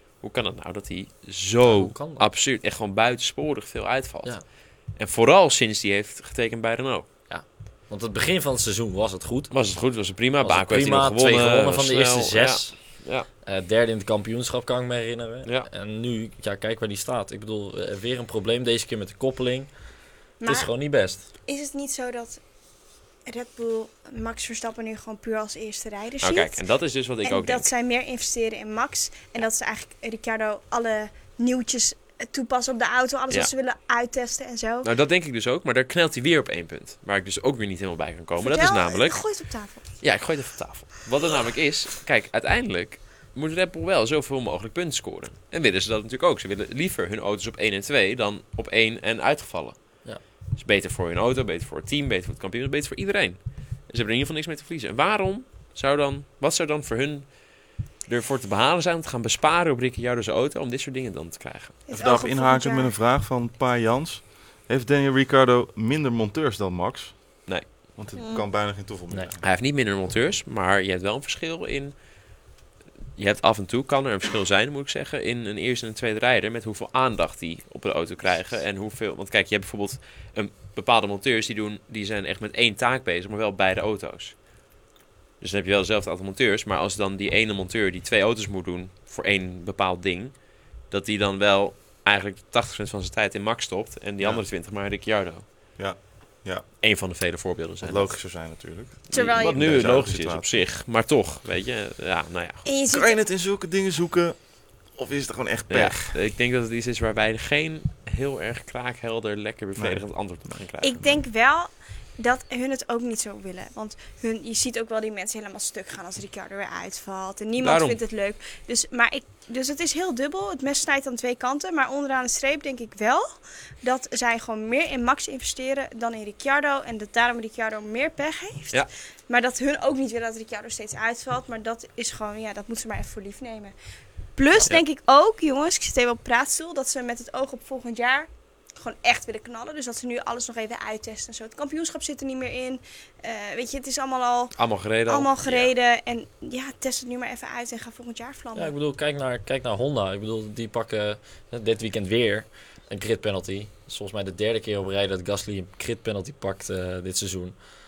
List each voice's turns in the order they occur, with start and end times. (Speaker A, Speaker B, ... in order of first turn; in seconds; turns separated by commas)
Speaker A: 0.2-7.1, Speaker B: 1.6-2.2, Speaker B: 7.3-9.7, Speaker A: 9.5-13.3, Speaker B: 10.4-21.2, Speaker C: 20.4-20.7, Speaker C: 21.4-22.4, Speaker C: 23.2-26.6, Speaker A: 26.2-27.7, Speaker C: 27.2-34.9, Speaker A: 34.8-61.8, Speaker C: 38.4-39.8, Speaker C: 61.9-62.9, Speaker D: 61.9-69.4, Speaker A: 67.5-67.7, Speaker C: 68.2-68.5, Speaker A: 69.4-72.0, Speaker A: 73.2-84.4, Speaker A: 85.4-95.5, Speaker D: 94.2-94.5, Speaker D: 95.8-96.7, Speaker A: 96.8-102.7, Speaker D: 97.8-100.6, Speaker C: 99.1-100.0, Speaker C: 102.7-103.2, Speaker D: 102.9-106.2, Speaker A: 105.7-111.0, Speaker D: 109.8-110.1, Speaker C: 110.8-123.3, Speaker A: 117.6-118.0, Speaker C: 123.8-133.7, Speaker C: 134.3-148.7, Speaker A: 144.6-145.7, Speaker B: 148.6-157.6